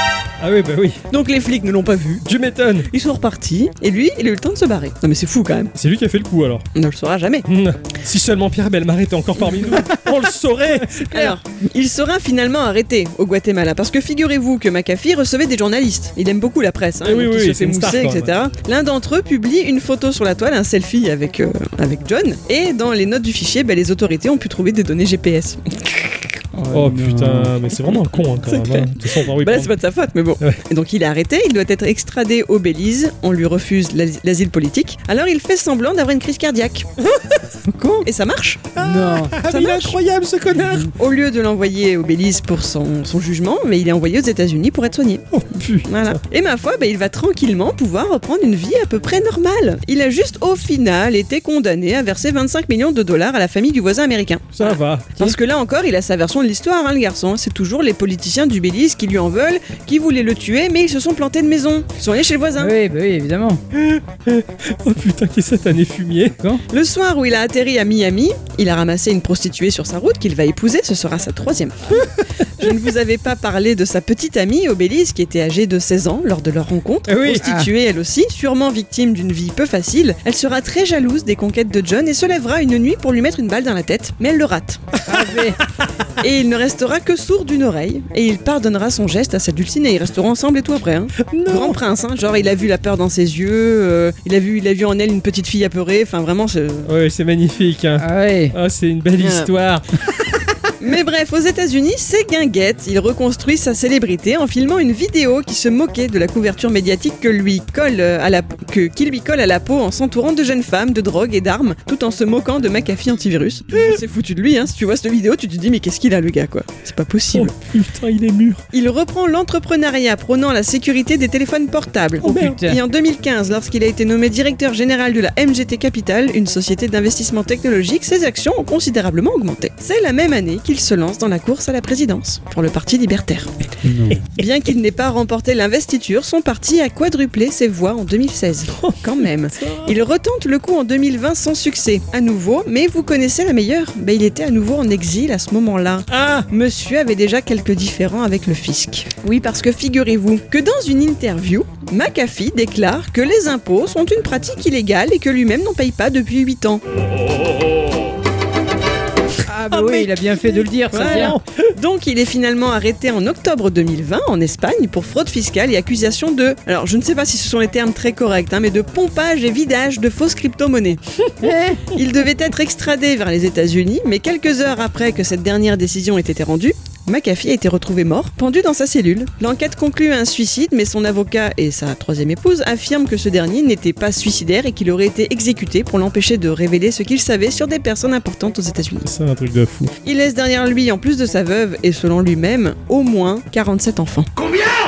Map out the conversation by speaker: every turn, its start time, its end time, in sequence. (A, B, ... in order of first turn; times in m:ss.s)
0:00.4-0:01.0 A
0:01.1-0:02.2 B
0:02.2-0:02.9 A
0:02.9-0:05.7 B
0:05.8-0:06.7 A
0:06.8-0:07.5 B
0:07.5-0:11.4 A
0:10.8-0:25.6 B
0:17.0-0:18.3 A
0:26.5-0:27.6 C
0:26.7-0:29.7 A
0:28.4-0:36.9 B
0:37.7-0:38.1 C
0:38.0-0:38.7 B
0:38.8-0:40.9 A
0:38.8-0:39.4 C
0:39.4-0:40.0 B
0:40.9-0:45.2 B
0:45.3-0:46.2 A
0:45.8-1:02.7 B
0:54.6-0:55.4 A
1:02.6-1:03.6 C
1:03.7-1:06.4 A
1:06.7-1:24.8 B
1:17.1-1:17.5 A
1:17.3-1:17.7 C
1:25.1-1:25.6 C
1:26.2-1:36.9 B
1:31.3-1:31.8 A
1:36.9-1:39.9 A
1:38.0-1:38.6 C
1:39.2-1:39.5 B
1:40.8-1:57.5 B
1:57.3-1:58.6 A
1:58.7-2:13.5 B
2:02.2-2:02.8 C
2:02.2-2:02.6 A
2:13.9-2:14.2 A
2:14.3-2:36.8 B
2:18.7-2:19.9 A
2:26.1-2:26.5 A
2:39.5-2:41.4 C
2:39.7-2:41.7 A
2:40.9-2:51.0 B
2:51.4-2:51.9 C
2:51.9-3:09.1 B
3:09.0-3:09.9 A
3:10.0-3:14.3 B